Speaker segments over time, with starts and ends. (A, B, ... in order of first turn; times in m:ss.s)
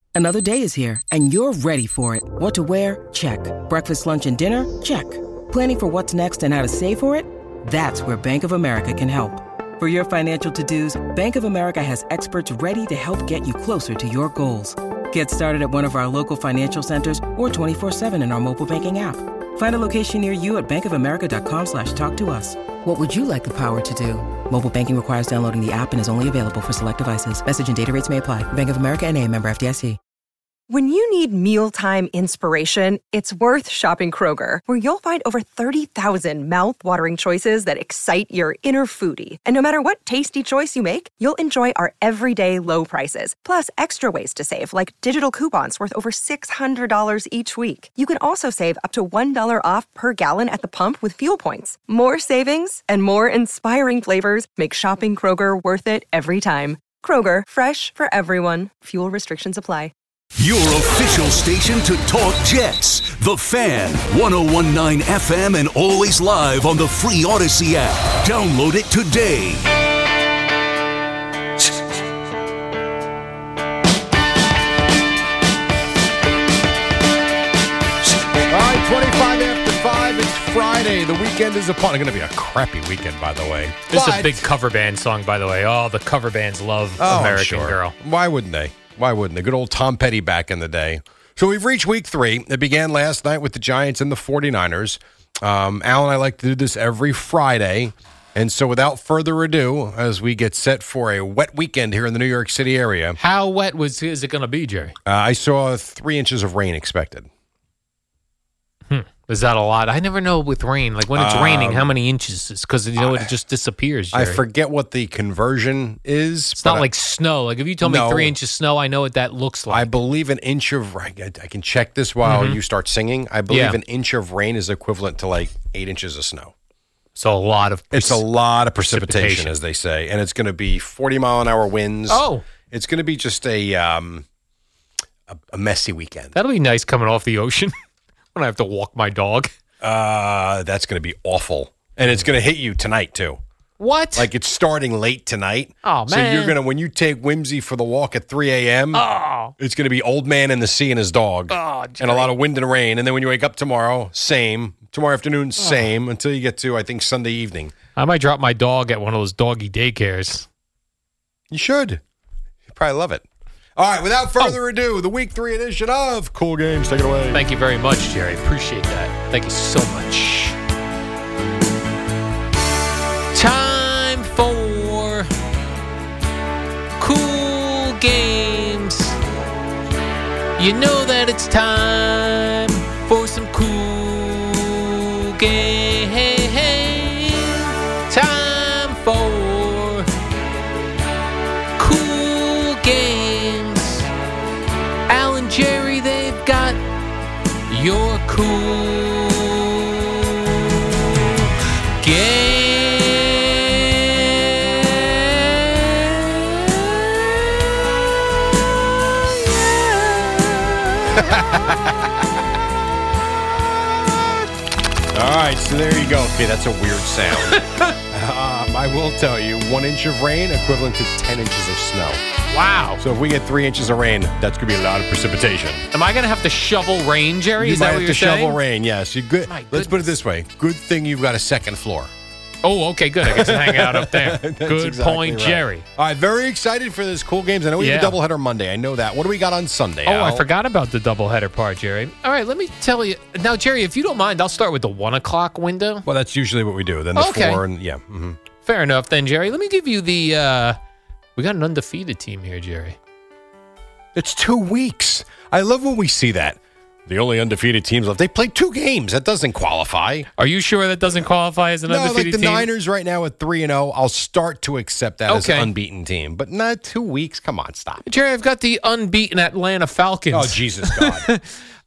0:00.1-0:30.0 A
0:30.7-0:59.9 B
1:00.4-1:09.6 C
1:18.5-1:24.4 D
1:23.9-1:27.9 E
1:27.0-1:43.2 D
1:43.2-1:45.0 E
1:45.0-1:47.3 D
1:48.9-1:54.4 E
1:51.1-1:51.9 D
1:53.0-1:53.3 D
1:54.1-1:56.9 D
1:56.6-1:59.9 E
1:57.8-1:58.3 D
1:59.7-2:06.5 D
2:02.2-2:02.6 E
2:03.5-2:03.8 E
2:07.2-2:08.2 E
2:07.9-2:14.2 D
2:08.9-2:09.5 E
2:12.1-2:12.4 E
2:15.3-2:16.4 D
2:16.3-2:17.7 E
2:18.4-2:19.5 E
2:19.8-2:23.4 D
2:23.8-2:24.3 E
2:24.2-2:29.0 D
2:25.8-2:26.6 E
2:28.9-2:29.5 E
2:29.6-2:37.7 D
2:31.5-2:32.3 E
2:35.6-2:35.9 E
2:38.0-2:40.5 E
2:41.5-2:42.0 D
2:42.7-2:43.2 D
2:43.8-2:47.4 D
2:47.3-2:50.6 E
2:53.3-2:55.3 E
2:57.0-2:59.2 E
3:00.6-3:10.1 E
3:11.8-3:14.1 E
3:15.1-3:16.8 E
3:17.7-3:20.8 E
3:22.0-3:27.1 E
3:31.1-3:32.1 D
3:35.1-3:37.6 D
3:37.5-3:38.0 E
3:38.1-3:42.2 D
3:42.5-3:43.0 E
3:43.0-3:45.8 D
3:45.9-3:48.6 E
3:47.6-3:52.1 D
3:49.5-3:50.2 E
3:52.6-3:55.8 E
3:53.2-4:00.4 D
3:57.8-3:58.2 E
4:00.0-4:06.0 E
4:06.0-4:08.4 D
4:07.2-4:07.6 E
4:08.6-4:10.8 E
4:11.4-4:13.0 E
4:14.1-4:20.3 D
4:20.4-4:22.7 E
4:21.9-4:28.0 D
4:25.3-4:25.7 E
4:28.0-4:31.6 E
4:30.3-4:31.3 D